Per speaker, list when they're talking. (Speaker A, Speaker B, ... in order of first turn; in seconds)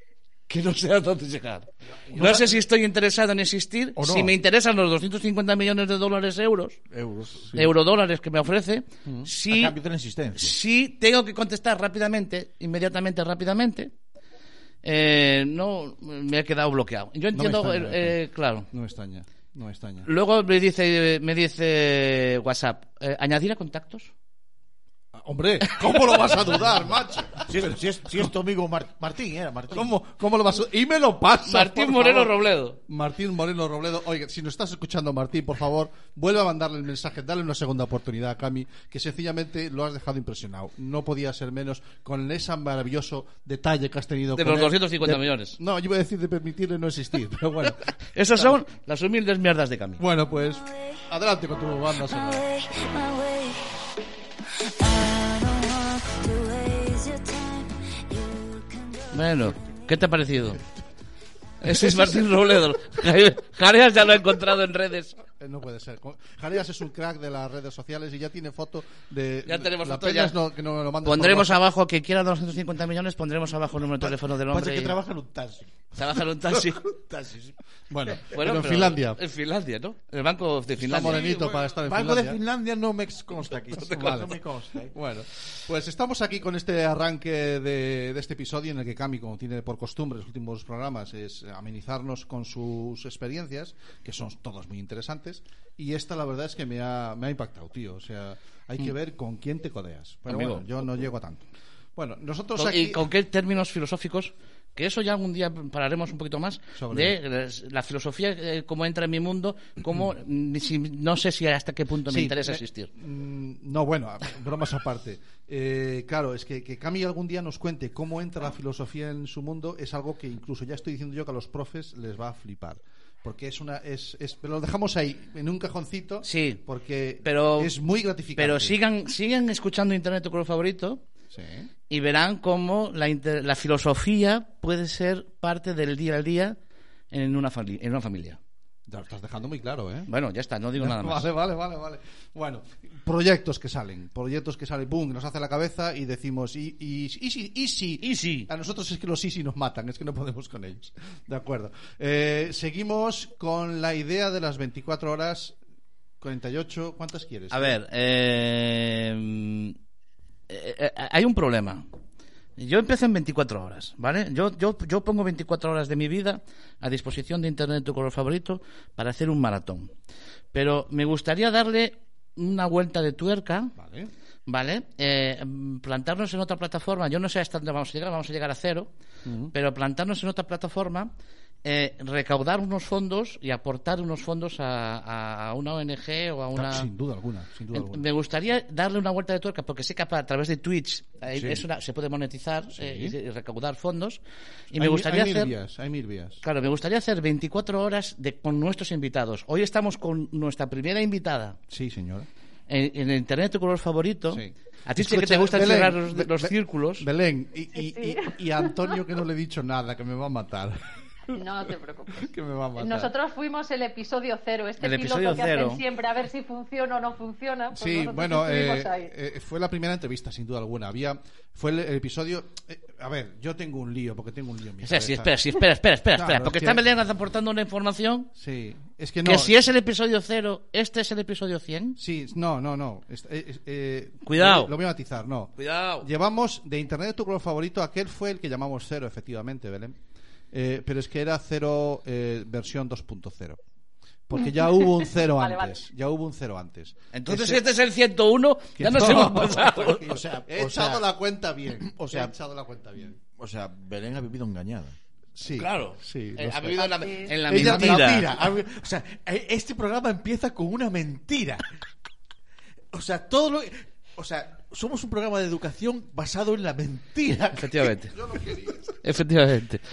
Speaker A: 0.5-6.8, 7.5-9.8, 10.3-13.9, 14.8-18.7, 20.0-24.1, 31.4-32.8, 44.3-45.6, 48.1-50.0, 59.1-60.6, 61.6-65.2, 69.5-70.3, 71.0-75.0, 75.9-76.8, 78.3-81.3, 100.3-100.7, 102.5-112.9, 126.2-126.6, 127.2-127.7, 128.3-131.0, 131.9-136.6, 137.1-138.4, 140.1-141.3, 148.0-148.5, 157.5-159.8, 160.5-161.8, 162.6-169.9, 170.5-173.8, 174.5-178.9, 179.5-181.1, 181.6-186.9, 187.7-195.5, 196.4-201.6, 202.7-207.1, 214.8-215.8, 224.8-228.3, 229.2-232.0, 234.2-234.7, 235.6-236.1, 247.1-250.1, 255.5-258.3, 267.5-268.1, 269.0-269.8
Speaker B: 2.0-2.6, 9.1-9.3, 17.3-18.2, 18.7-20.1, 25.1-27.8, 29.7-48.6, 50.0-52.4, 65.4-71.6, 77.9-79.2, 80.8-82.4, 83.8-84.3, 84.9-103.0, 106.8-107.2, 112.0-128.8, 131.3-131.7, 138.9-140.1, 140.8-155.6, 156.2-157.8, 173.8-174.1, 179.2-179.5, 186.5-188.1, 191.3-191.6, 192.7-193.1, 194.8-196.4, 201.7-202.3, 204.3-213.1, 217.7-225.4, 226.1-226.8, 228.3-229.5, 232.0-240.0, 240.5-243.6, 244.3-247.6, 248.8-253.2, 255.4-258.2, 268.1-268.9
Speaker C: 4.0-4.3, 6.9-7.6, 9.4-10.5, 27.5-29.9, 74.0-77.5, 81.8-84.9, 249.9-251.1, 251.8-252.3, 253.4-254.9, 257.5-261.6, 262.9-267.9
Speaker D: 52.0-53.7, 54.7-59.5
Speaker E: 207.8-208.8, 211.3-219.1, 245.2-245.8